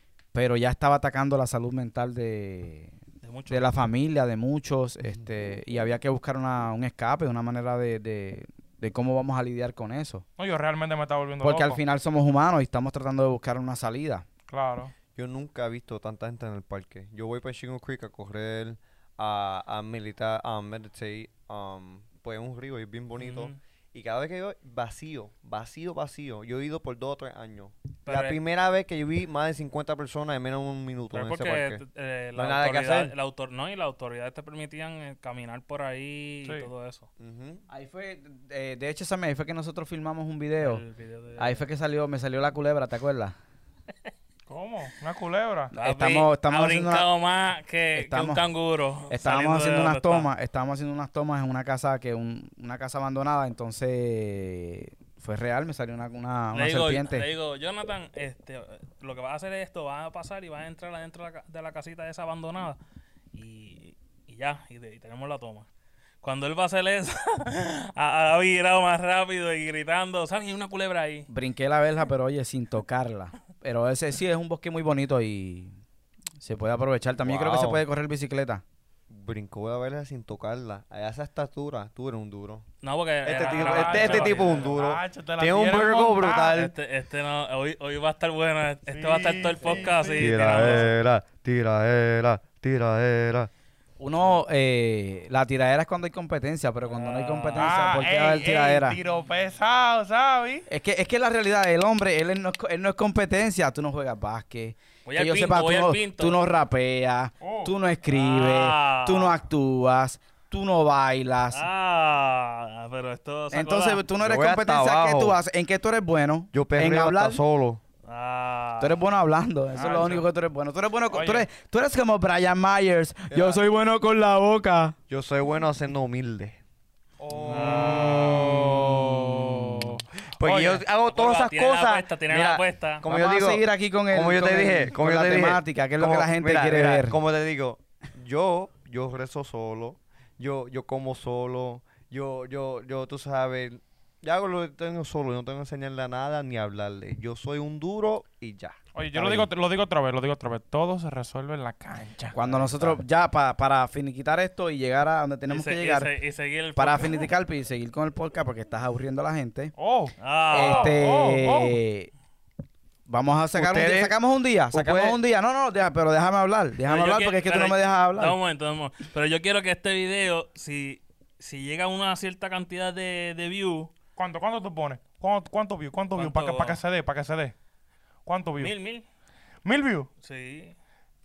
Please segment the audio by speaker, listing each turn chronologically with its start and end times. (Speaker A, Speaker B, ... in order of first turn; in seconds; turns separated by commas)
Speaker A: 0.3-2.9, Speaker B: 3.2-3.7, Speaker A: 3.5-10.2, Speaker C: 10.4-11.8, Speaker A: 11.4-14.2, Speaker C: 14.5-14.9, Speaker D: 15.2-31.8, Speaker B: 23.2-23.6, Speaker B: 28.1-28.4, Speaker B: 31.1-37.1, Speaker D: 32.4-33.1, Speaker D: 37.2-37.6, Speaker A: 37.7-40.8, Speaker B: 40.6-41.6, Speaker A: 41.4-43.4, Speaker C: 44.5-45.7, Speaker A: 45.7-47.1, Speaker B: 45.8-50.3, Speaker A: 48.0-48.4, Speaker A: 49.1-57.3, Speaker B: 56.5-62.8, Speaker B: 63.3-65.7, Speaker B: 66.2-71.3, Speaker A: 71.3-75.7, Speaker A: 76.4-78.6, Speaker B: 77.3-77.8, Speaker D: 79.1-82.7, Speaker B: 82.8-84.8, Speaker D: 83.2-86.7, Speaker C: 83.3-86.6, Speaker B: 86.5-90.9, Speaker C: 88.9-90.9, Speaker D: 90.2-93.5, Speaker A: 94.0-99.0, Speaker B: 96.9-97.9, Speaker C: 97.6-100.7, Speaker A: 100.7-111.7, Speaker B: 105.1-106.4, Speaker C: 107.4-107.7, Speaker B: 108.1-109.4, Speaker B: 111.5-114.0, Speaker A: 113.5-117.4, Speaker D: 114.2-115.4, Speaker D: 116.5-117.8, Speaker B: 118.1-119.0, Speaker A: 118.8-125.0, Speaker B: 119.8-120.2, Speaker C: 121.1-121.5, Speaker D: 123.3-123.6, Speaker D: 125.1-126.6, Speaker C: 127.2-130.8, Speaker D: 127.3-148.8, Speaker B: 127.5-129.2, Speaker B: 131.0-133.0, Speaker A: 133.1-137.2, Speaker C: 148.9-152.4, Speaker A: 149.1-149.5, Speaker A: 152.3-156.1, Speaker B: 155.5-157.3, Speaker A: 156.8-159.7, Speaker C: 159.8-161.8, Speaker B: 160.2-161.0, Speaker A: 160.5-162.1, Speaker A: 163.1-168.4, Speaker D: 163.6-164.2, Speaker D: 164.7-165.2, Speaker B: 166.9-173.9, Speaker C: 174.2-177.5, Speaker B: 176.2-176.8, Speaker C: 178.3-178.7, Speaker B: 178.6-179.1, Speaker C: 179.7-180.1, Speaker B: 180.2-180.8